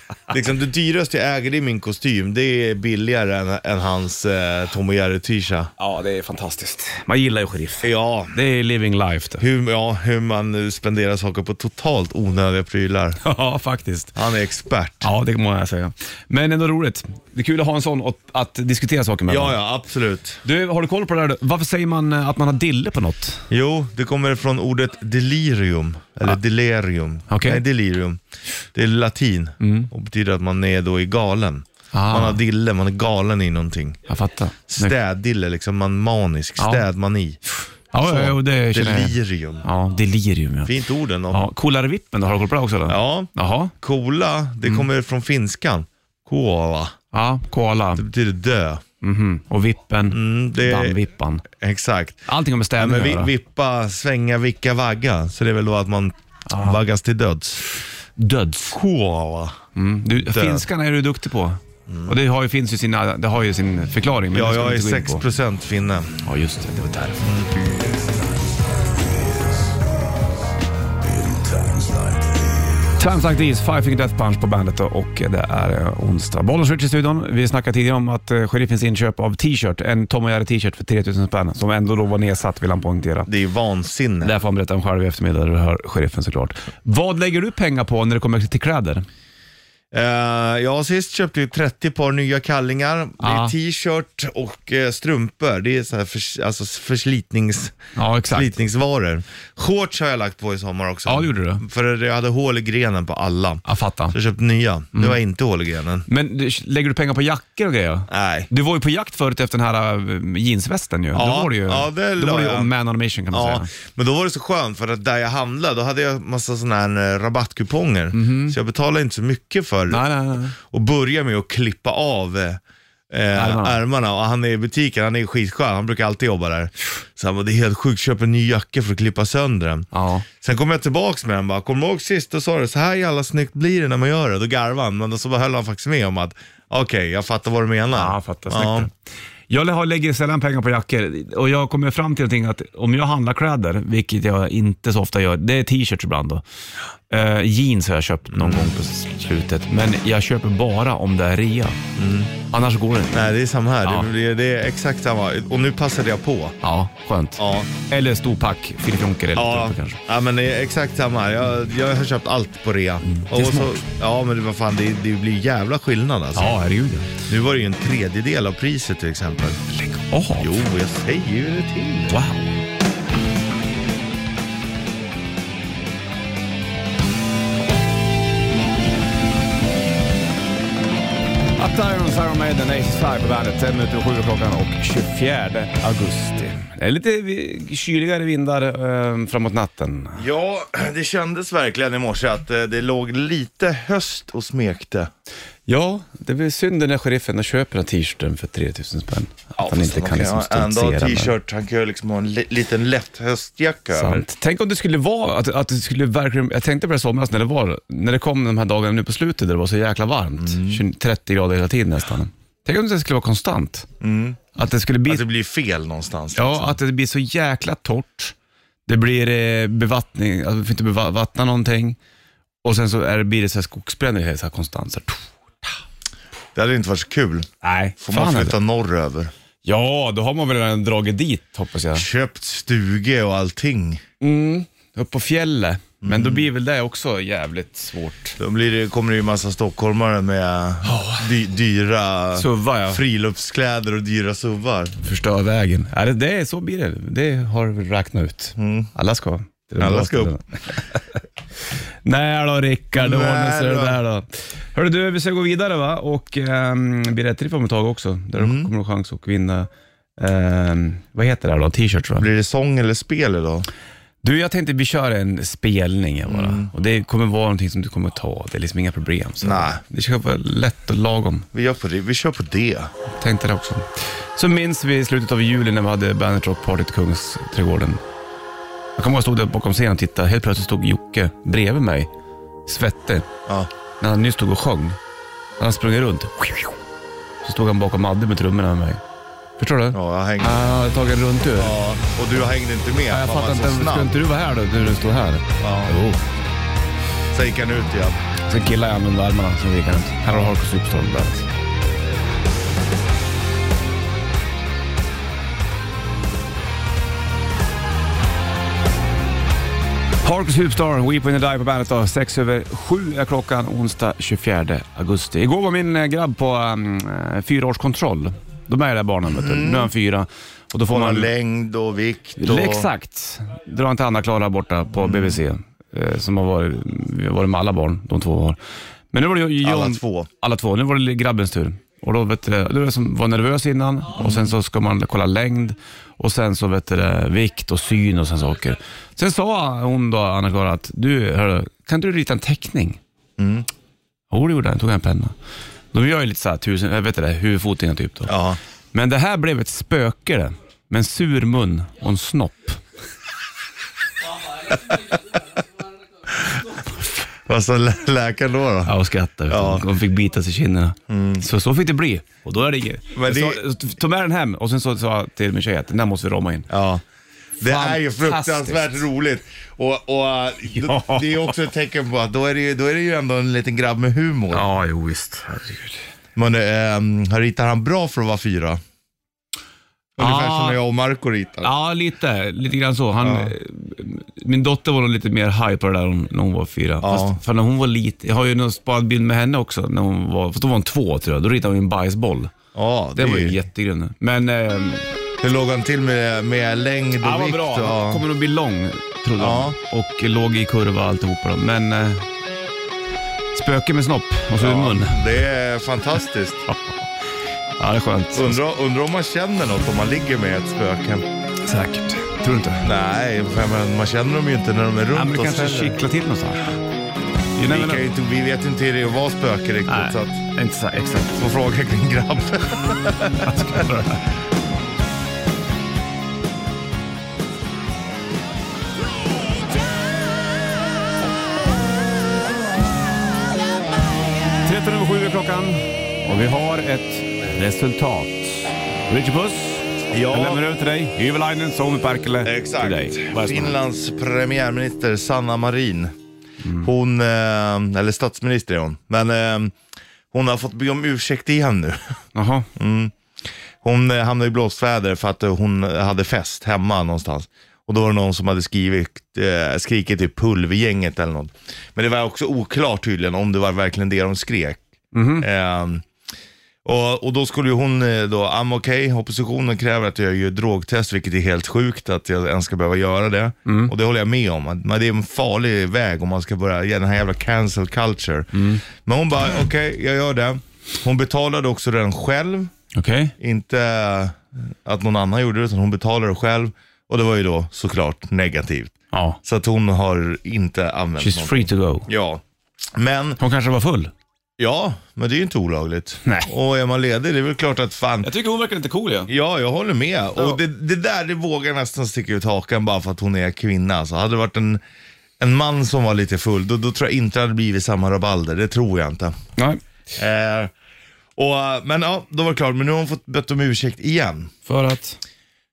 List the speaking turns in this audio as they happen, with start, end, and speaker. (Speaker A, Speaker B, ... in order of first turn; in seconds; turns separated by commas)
Speaker A: 0.3-5.7, Speaker B: 5.8-9.4, Speaker A: 7.8-8.4, Speaker A: 9.4-13.2, Speaker B: 13.2-14.1, Speaker A: 14.2-15.1, Speaker B: 15.0-19.6, Speaker A: 19.3-20.4, Speaker B: 20.4-23.4, Speaker A: 23.5-28.2, Speaker B: 27.3-27.6, Speaker A: 28.7-34.0, Speaker B: 29.6-29.9, Speaker B: 31.9-32.4, Speaker B: 34.1-35.0, Speaker A: 34.7-37.4, Speaker B: 36.6-36.8, Speaker B: 37.9-40.7, Speaker A: 38.0-39.7, Speaker A: 40.6-41.4, Speaker B: 41.3-43.7, Speaker A: 42.9-47.0, Speaker B: 47.1-48.0, Speaker A: 48.0-48.8, Speaker B: 49.0-51.4, Speaker A: 50.1-51.0, Speaker A: 51.5-57.6, Speaker B: 52.3-53.3, Speaker B: 56.5-56.8, Speaker B: 58.2-58.8, Speaker A: 58.7-59.6, Speaker B: 59.7-65.2, Speaker A: 60.2-60.6, Speaker A: 61.9-62.1, Speaker A: 64.3-66.2, Speaker B: 66.2-67.2, Speaker A: 67.2-67.6, Speaker B: 73.0-83.3, Speaker A: 83.3-84.3, Speaker B: 84.2-89.0, Speaker A: 89.9-97.8, Speaker B: 93.2-93.5, Speaker B: 98.0-98.5, Speaker A: 98.3-106.1, Speaker B: 101.0-101.6, Speaker B: 103.7-104.2, Speaker B: 106.1-113.7, Speaker A: 108.1-108.5, Speaker A: 111.1-112.7, Speaker A: 113.3-129.9, Speaker B: 118.1-118.6, Speaker B: 119.9-120.6, Speaker B: 123.3-123.8, Speaker B: 129.9-130.2, Speaker A: 130.4-138.9, Speaker B: 137.9-138.9, Speaker B: 139.5-146.4, Speaker B: 147.1-151.8, Speaker A: 148.3-148.7, Speaker A: 151.9-152.3, Speaker B: 152.5-153.3, Speaker A: 153.1-156.6, Speaker B: 153.8-154.1, Speaker B: 156.6-160.0, Speaker A: 157.4-157.7, Speaker A: 159.3-166.5, Speaker B: 163.0-163.8, Speaker B: 166.3-167.1, Speaker A: 167.2-169.6, Speaker B: 169.7-170.6, Speaker A: 170.4-172.2, Speaker B: 172.1-172.6, Speaker B: 181.6-190.2, Speaker A: 190.2-195.1, Speaker B: 195.7-201.3, Speaker A: 199.6-204.2, Speaker B: 203.9-213.9, Speaker A: 210.4-210.8, Speaker A: 214.0-214.4, Speaker B: 214.6-215.2, Speaker A: 215.1-216.8, Speaker B: 216.3-218.3, Speaker B: 218.9-222.0, Speaker B: 222.6-225.7, Speaker A: 226.5-227.5, Speaker B: 227.6-228.6, Speaker A: 228.0-229.3, Speaker B: 229.6-232.1, Speaker A: 231.9-234.0, Speaker B: 234.2-238.4, Speaker A: 236.0-236.5, Speaker A: 238.4-244.9, Speaker B: 240.8-241.3, Speaker B: 242.3-243.0, Speaker B: 245.0-251.0, Speaker A: 248.6-248.9, Speaker A: 249.8-250.4, Speaker B: 252.0-262.3, Speaker A: 252.9-254.0, Speaker A: 258.4-258.7, Speaker A: 262.2-263.7, Speaker B: 264.2-271.5, Speaker A: 266.2-266.7, Speaker A: 269.4-269.8, Speaker A: 271.5-272.9, Speaker B: 273.2-278.0, Speaker B: 279.0-282.1, Speaker B: 282.6-283.3, Speaker B: 284.0-285.0, Speaker B: 285.6-286.8, Speaker B: 287.4-289.0, Speaker B: 289.6-291.7, Speaker A: 289.9-290.7, Speaker A: 291.6-294.1, Speaker B: 293.1-296.2, Speaker A: 295.6-295.9, Speaker A: 297.3-298.2, Speaker B: 298.5-301.5, Speaker B: 310.2-321.3, Speaker A: 319.3-319.9, Speaker A: 320.9-322.9, Speaker B: 322.4-328.6, Speaker A: 325.0-325.4, Speaker B: 329.1-343.0, Speaker A: 329.6-330.3, Speaker A: 334.2-334.5, Speaker A: 343.4-343.7, Speaker B: 344.3-345.3, Speaker B: 345.9-348.3, Speaker A: 348.3-348.6, Speaker B: 348.9-352.8, Speaker A: 354.7-355.2, Speaker A: 356.3-356.8, Speaker A: 357.4-358.9, Speaker B: 358.8-366.7, Speaker A: 359.5-359.9, Speaker A: 361.1-361.4, Speaker A: 363.1-363.6, Speaker A: 366.7-367.0, Speaker A: 367.6-374.6, Speaker B: 367.6-369.0, Speaker B: 370.7-371.6, Speaker B: 374.5-376.0, Speaker A: 376.4-378.8, Speaker B: 380.2-380.8, Speaker A: 380.2-381.7, Speaker B: 381.6-392.5, Speaker A: 383.2-383.5, Speaker A: 387.0-387.4, Speaker A: 392.7-393.6, Speaker B: 393.1-395.1, Speaker A: 395.4-398.2, Speaker B: 397.2-402.2, Speaker A: 399.4-399.8, Speaker B: 403.5-405.2, Speaker A: 404.6-406.7, Speaker B: 406.7-407.0, Speaker B: 407.8-408.6, Speaker A: 408.3-411.2, Speaker B: 411.6-412.9, Speaker A: 412.8-416.0, Speaker B: 415.1-416.8, Speaker B: 417.6-418.1, Speaker A: 417.7-420.4, Speaker B: 419.9-421.5, Speaker A: 421.4-423.9, Speaker B: 423.4-424.2, Speaker B: 434.6-443.8, Speaker A: 440.1-440.6, Speaker A: 442.4-446.1, Speaker B: 446.6-446.9, Speaker A: 446.8-449.7, Speaker A: 450.3-452.2, Speaker B: 452.3-452.7, Speaker A: 452.8-453.1, Speaker A: 453.8-464.8, Speaker B: 465.1-465.4, Speaker A: 465.4-466.1, Speaker A: 466.8-482.7, Speaker B: 473.6-473.9, Speaker B: 478.5-478.8, Speaker B: 482.9-483.3, Speaker A: 483.4-488.9, Speaker B: 489.1-489.4, Speaker A: 489.4-492.4, Speaker B: 491.2-492.1, Speaker A: 492.9-493.4, Speaker B: 493.4-494.1, Speaker A: 494.6-498.3, Speaker B: 496.2-496.5, Speaker B: 498.2-499.3, Speaker A: 499.3-504.8, Speaker A: 505.4-509.4, Speaker A: 510.1-510.7, Speaker A: 511.4-514.5, Speaker B: 514.6-515.2